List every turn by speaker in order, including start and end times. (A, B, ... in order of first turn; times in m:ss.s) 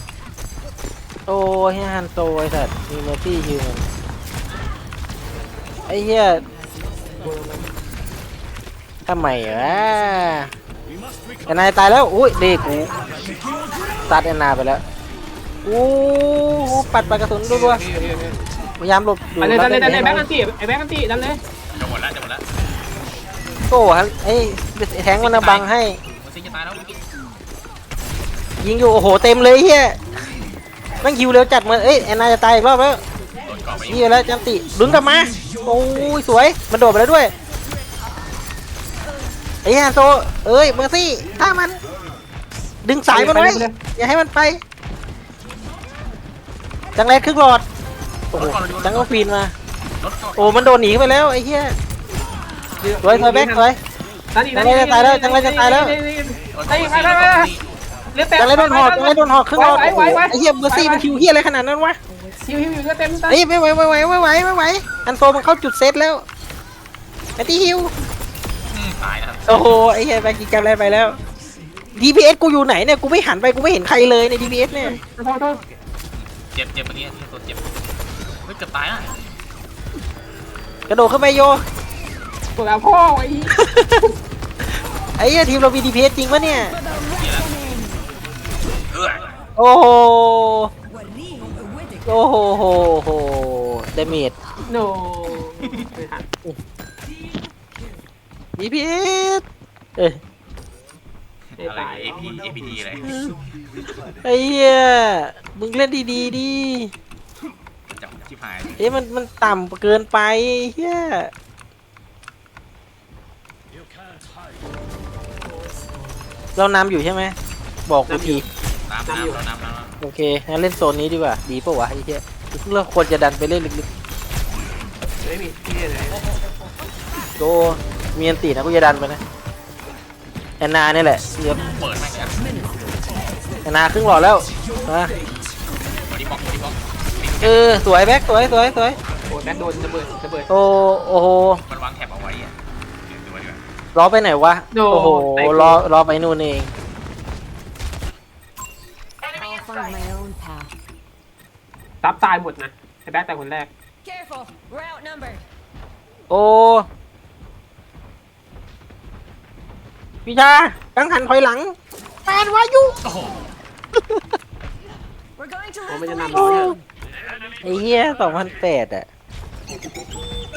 0:01.3-0:03.8 A
0:05.9-0:06.4 A
0:07.2-0:07.7 B
0:09.1-0:10.5 A
0:11.5-0:12.9 A
0:14.1-0:14.8 A
0:15.6-0:17.8 A
0:17.4-0:18.4 B
0:18.8-0:20.2 A
0:19.4-0:21.4 B
0:21.7-0:22.5 C
0:23.7-0:26.0 A
0:25.2-0:27.0 C
0:28.6-0:30.0 A
0:31.0-0:33.0 A
0:33.4-0:34.1 C
0:33.9-0:37.3 A
0:39.6-0:41.8 A
0:42.8-0:44.6 A
0:43.1-0:43.8 B
0:47.0-0:47.6 A
0:48.3-0:49.3 C
0:48.3-0:49.5 A
0:50.0-0:50.7 C
0:50.4-0:51.8 A
0:52.8-0:53.7 B
0:53.0-0:53.8 A
0:54.3-0:57.6 B
0:54.6-0:56.0 A
0:56.5-0:57.6 C
0:58.1-1:01.1 B
0:58.4-1:02.0 A
1:02.5-1:03.4 B
1:03.3-1:06.3 A
1:07.4-1:07.9 A
1:08.7-1:09.8 C
1:09.5-1:11.2 A
1:12.0-1:15.0 A
1:14.8-1:15.8 B
1:16.1-1:17.7 C
1:18.4-1:19.2 C
1:20.9-1:21.6 A
1:22.6-1:23.6 B
1:23.6-1:24.0 A
1:25.2-1:26.8 A
1:27.1-1:27.6 C
1:28.9-1:29.2 C
1:29.6-1:30.7 A
1:32.1-1:34.4 A
1:34.7-1:36.3 B
1:38.6-1:39.4 A
1:41.6-1:43.2 C
1:41.6-1:42.3 B
1:44.2-1:46.9 A
1:47.9-1:48.9 C
1:48.8-1:51.3 A
1:56.6-1:57.4 A
1:57.9-1:58.4 A
1:58.1-1:58.4 B
1:58.9-2:00.0 C
1:59.1-1:59.4 B
2:00.0-2:03.9 A
2:05.2-2:06.2 B
2:07.4-2:09.2 A
2:10.6-2:11.6 A
2:11.6-2:12.5 C
2:13.6-2:15.2 A
2:16.1-2:17.6 C
2:17.4-2:19.0 A
2:19.3-2:20.5 B
2:20.5-2:21.6 A
2:21.7-2:22.6 C
2:23.1-2:23.6 C
2:24.0-2:26.7 A
2:24.7-2:25.8 B
2:29.6-2:30.7 D
2:32.0-2:33.7 B
2:34.1-2:35.4 D
2:36.3-2:36.9 A
2:40.3-2:41.8 A
2:42.3-2:43.0 A
2:43.0-2:43.4 C
2:45.8-2:46.8 B
2:46.4-2:46.8 A
2:47.6-2:49.1 A